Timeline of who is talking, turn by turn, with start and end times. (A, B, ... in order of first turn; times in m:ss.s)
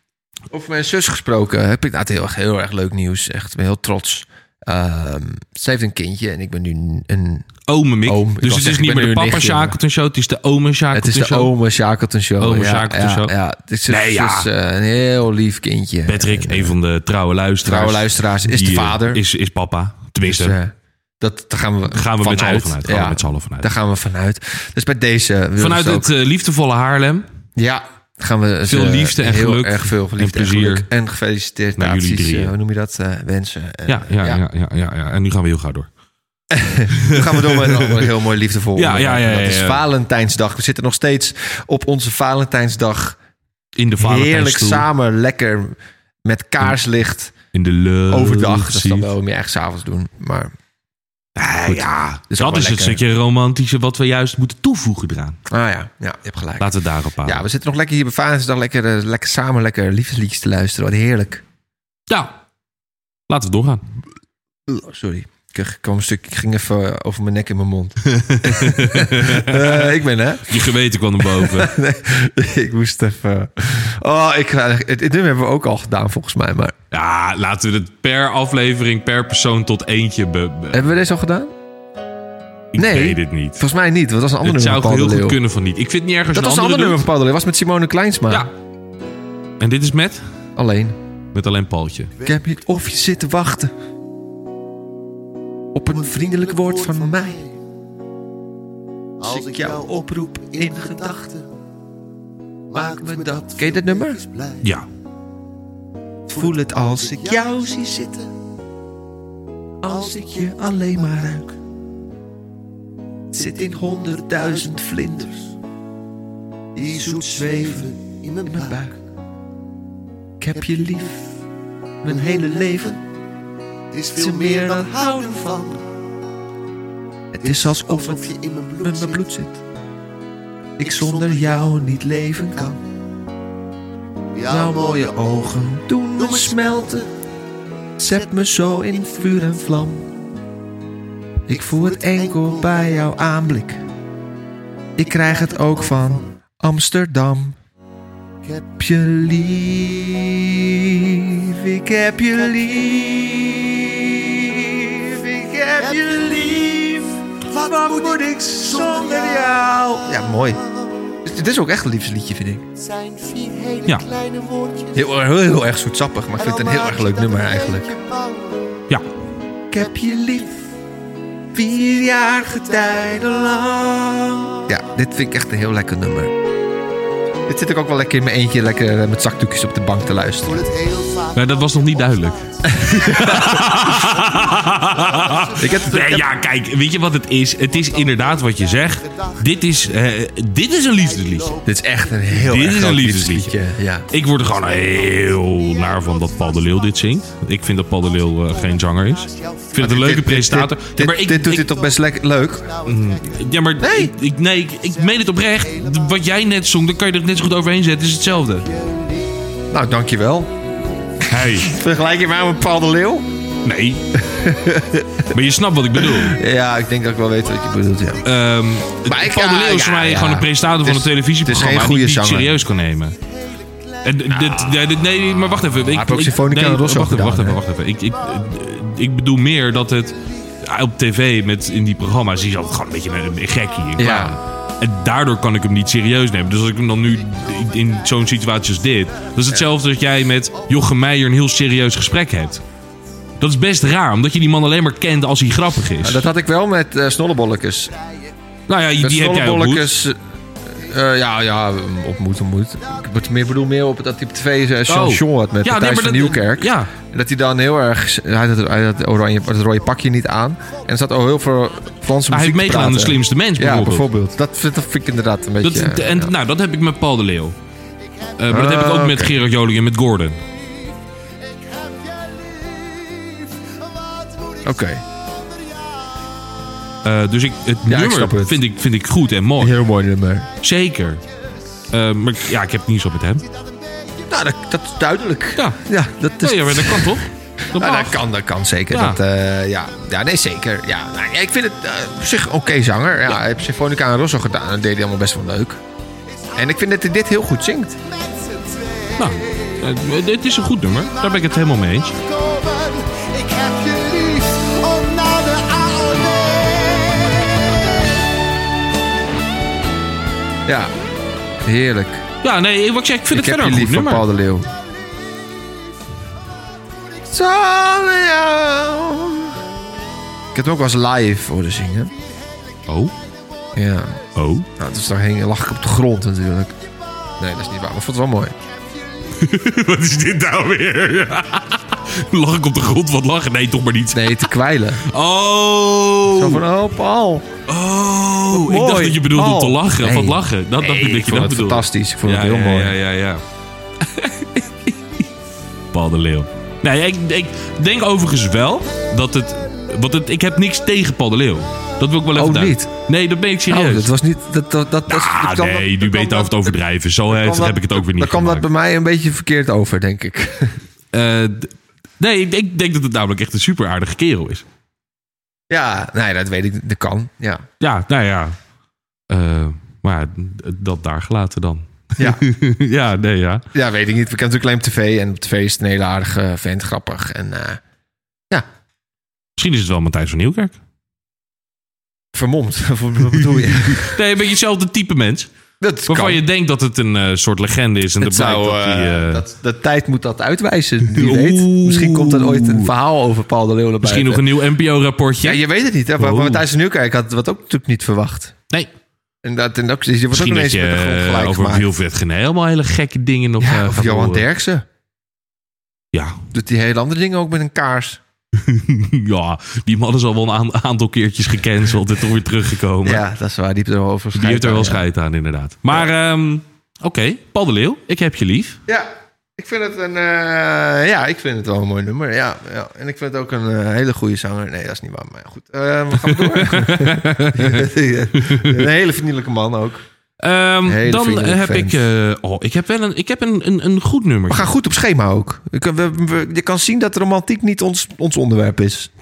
0:00.5-0:07.5 A
0:07.7-0:11.5 B
0:08.0-0:09.8 A
0:10.9-0:16.7 A
0:12.4-0:13.3 B
0:13.9-0:14.5 B
0:16.1-0:20.6 B
0:17.6-0:19.2 A
0:20.2-0:26.1 A
0:21.9-0:23.7 B
0:25.6-0:27.3 B
0:27.6-0:34.4 A
0:28.6-0:30.9 B
0:31.8-0:32.5 B
0:33.9-0:35.9 B
0:36.5-0:43.2 A
0:36.9-0:38.1 B
0:38.8-0:39.8 B
0:43.8-0:44.9 B
0:44.0-0:47.3 A
0:47.5-0:49.1 B
0:48.1-0:50.5 A
0:51.4-0:55.4 B
0:51.7-0:53.0 A
0:55.5-1:01.4 A
0:56.6-0:57.4 B
1:02.1-1:02.3 B
1:03.3-1:03.8 B
1:04.7-1:10.7 A
1:08.1-1:11.8 B
1:11.2-1:16.8 A
1:16.9-1:20.9 B
1:20.7-1:21.5 A
1:22.7-1:23.6 B
1:22.8-1:25.4 A
1:24.4-1:27.1 B
1:26.3-1:28.5 A
1:29.6-1:30.2 B
1:30.6-1:31.0 A
1:31.3-1:32.1 B
1:32.2-1:33.7 A
1:35.7-1:37.4 A
1:35.9-1:37.6 C
1:39.2-1:41.5 C
1:39.2-1:41.3 A
1:42.7-1:44.7 C
1:42.7-1:44.2 A
1:44.6-1:44.9 B
1:46.3-1:48.2 A
1:46.3-1:48.0 C
1:49.8-1:51.5 A
1:49.9-1:50.7 C
1:53.3-1:55.5 A
1:54.3-1:54.7 C
1:56.8-1:58.8 C
1:56.8-1:59.0 A
2:00.4-2:01.4 A
2:02.0-2:03.0 A
2:02.1-2:02.5 C
2:03.9-2:05.8 C
2:04.1-2:05.6 A
2:07.3-2:09.6 A
2:07.4-2:09.2 C
2:10.8-2:12.8 A
2:10.8-2:11.8 C
2:14.4-2:15.5 C
2:14.5-2:17.1 A
2:16.2-2:17.0 C
2:18.0-2:20.1 A
2:18.7-2:19.4 C
2:21.5-2:23.8 A
2:21.5-2:23.1 C
2:25.0-2:27.6 A
2:25.0-2:26.2 C
2:28.4-2:28.7 C
2:28.8-2:40.6 A
2:32.4-2:33.4 C
2:35.8-2:36.9 C
2:37.4-2:40.0 C
2:40.7-2:41.1 C
2:41.2-2:42.7 A
2:42.8-2:45.1 C
2:44.9-2:47.9 A
2:46.4-2:48.7 C
2:49.7-2:50.6 A
2:50.2-2:50.4 C
2:51.5-2:56.4 A
2:52.4-2:53.3 C
2:57.5-3:00.7 A
3:00.5-3:02.8 C
3:01.3-3:11.6 B
3:02.7-3:03.8 A
3:04.0-3:05.6 C
3:05.6-3:06.3 A
3:08.0-3:08.2 C
3:09.1-3:09.4 C
3:11.2-3:11.6 C
3:11.6-3:14.1 A
3:12.3-3:13.6 B
3:14.1-3:21.7 B
3:14.8-3:16.5 C
3:19.3-3:19.7 C
3:19.8-3:22.8 A
3:22.7-3:23.4 C
3:22.8-3:28.7 B
3:23.8-3:24.1 A
3:28.7-3:29.3 C
3:29.7-3:30.5 A
3:31.2-3:31.7 B
3:31.4-3:33.3 A
3:33.6-3:34.2 B
3:34.1-3:35.3 A
3:35.3-3:36.4 B
3:36.0-3:38.2 A
3:38.2-3:43.2 B
3:39.0-3:42.6 A
3:44.0-4:02.6 B
3:44.3-3:44.8 A
3:45.9-3:47.6 A
3:54.0-3:54.4 A
4:03.4-4:06.3 B
4:06.0-4:07.9 A
4:08.7-4:09.9 B
4:09.0-4:26.3 A
4:14.9-4:16.9 B
4:22.3-4:24.1 B
4:25.6-4:27.6 B
4:28.4-4:30.4 B
4:28.5-4:29.4 A
4:34.6-4:35.0 A
4:37.0-4:39.8 B
4:37.9-4:38.6 A
4:39.6-4:40.5 A
4:40.6-4:41.2 B
4:41.9-4:43.5 B
4:44.3-4:47.2 A
4:46.4-4:48.2 B
4:47.7-4:55.8 A
4:48.9-4:49.2 B
4:56.6-4:58.0 A
4:58.2-4:59.1 C
4:59.2-5:02.2 B
5:02.2-5:07.3 C
5:10.7-5:10.9 A
5:11.6-5:12.2 A
5:12.4-5:14.3 B
5:13.3-5:14.7 A
5:17.3-5:19.6 A
5:20.5-5:22.1 A
5:22.9-5:23.1 B
5:23.8-5:24.2 A
5:24.4-5:24.7 B
5:24.8-5:26.8 A
5:27.4-5:28.6 A
5:29.4-5:36.6 B
5:34.1-5:35.0 A
5:36.3-5:37.5 A
5:37.7-5:43.4 B
5:38.5-5:43.0 A
5:44.0-5:45.1 B
5:45.9-5:54.1 B
5:52.4-5:52.9 A
5:53.7-5:56.7 A
5:55.1-5:58.7 B
5:57.3-6:00.8 A
6:01.1-6:04.7 B
6:05.7-6:07.7 A
6:07.8-6:08.6 B
6:09.3-6:13.6 B
6:12.2-6:12.4 A
6:13.7-6:17.8 A
6:19.6-6:20.8 B
6:22.3-6:24.2 A
6:23.9-6:25.5 B
6:25.8-6:26.4 A
6:26.1-6:29.4 B
6:28.2-6:34.5 A
6:31.1-6:32.9 B
6:34.0-6:35.6 B
6:35.4-6:38.6 A
6:36.2-6:36.6 B
6:39.4-6:41.9 A
6:40.3-6:44.5 B
6:43.6-6:44.9 A
6:46.1-6:46.5 B
6:46.5-6:48.2 A
6:48.6-6:53.2 B
6:53.0-6:55.0 A
6:54.3-6:58.8 B
6:58.9-7:10.0 A
7:06.2-7:08.8 B
7:10.4-7:14.7 B
7:10.9-7:12.0 A
7:14.5-7:19.1 A